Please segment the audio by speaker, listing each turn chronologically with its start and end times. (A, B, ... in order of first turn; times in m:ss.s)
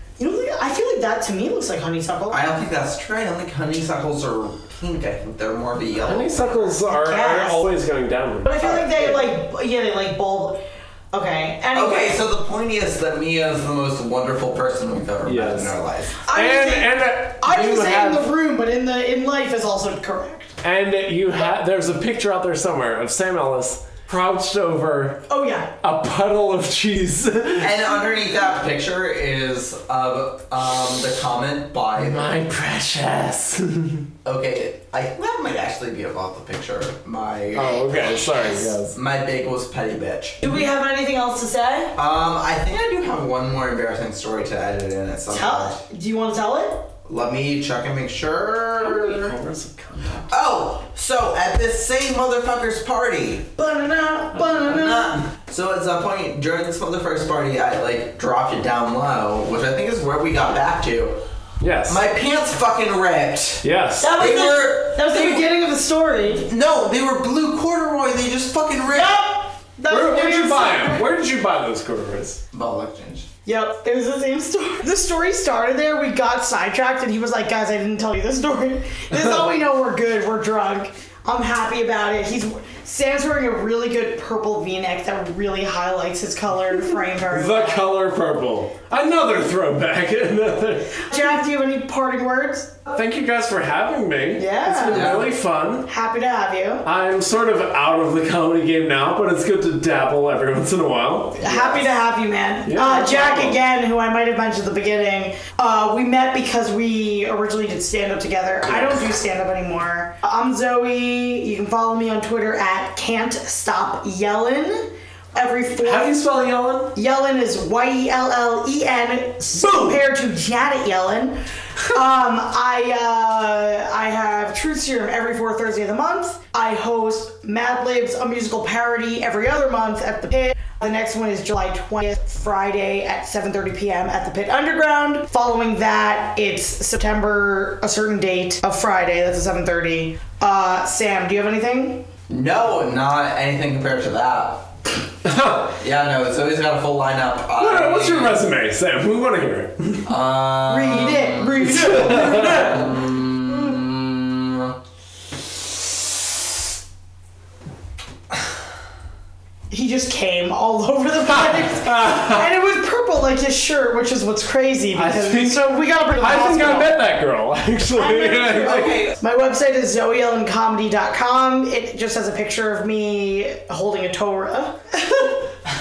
0:00.2-0:02.4 A
0:02.3-0:06.4 B
0:06.0-0:09.3 C
0:06.9-0:07.7 A
0:08.4-0:12.2 A
0:11.7-0:16.2 B
0:15.2-0:15.7 C
0:16.2-0:20.6 A
0:16.3-0:18.3 C
0:20.6-0:25.2 C
0:25.3-0:25.7 A
0:25.8-0:27.8 C
0:27.6-0:32.3 B
0:32.0-0:34.1 C
0:34.2-0:40.4 B
0:37.5-0:39.0 C
0:40.4-0:41.9 A
0:41.9-0:45.8 B
0:45.3-0:46.9 A
0:47.0-0:49.4 B
0:48.8-0:50.3 C
0:50.3-0:53.5 B
0:53.6-0:55.2 A
0:54.6-1:01.2 B
1:01.6-1:02.0 C
1:01.9-1:05.4 B
1:03.6-1:04.2 C
1:04.0-1:06.5 A
1:06.5-1:09.2 B
1:08.9-1:11.1 A
1:09.9-1:12.4 C
1:12.5-1:13.3 B
1:13.4-1:27.9 A
1:27.3-1:31.1 C
1:31.0-1:32.8 A
1:32.9-1:35.9 C
1:34.4-1:35.2 A
1:34.9-1:35.3 B
1:35.8-1:36.8 A
1:36.8-1:41.9 C
1:41.4-1:56.2 A
1:42.6-1:43.6 C
1:48.7-1:49.0 C
1:55.8-1:56.9 C
1:56.9-2:22.1 A
1:59.6-2:00.0 C
2:22.3-2:24.8 B
2:25.2-2:25.6 C
2:25.3-2:28.4 B
2:27.6-2:30.1 C
2:30.0-2:34.8 B
2:30.7-2:33.1 A
2:31.7-2:32.8 C
2:39.7-2:47.0 A
2:41.3-2:42.5 C
2:44.9-2:49.0 C
2:47.9-2:55.5 A
2:48.6-2:49.2 B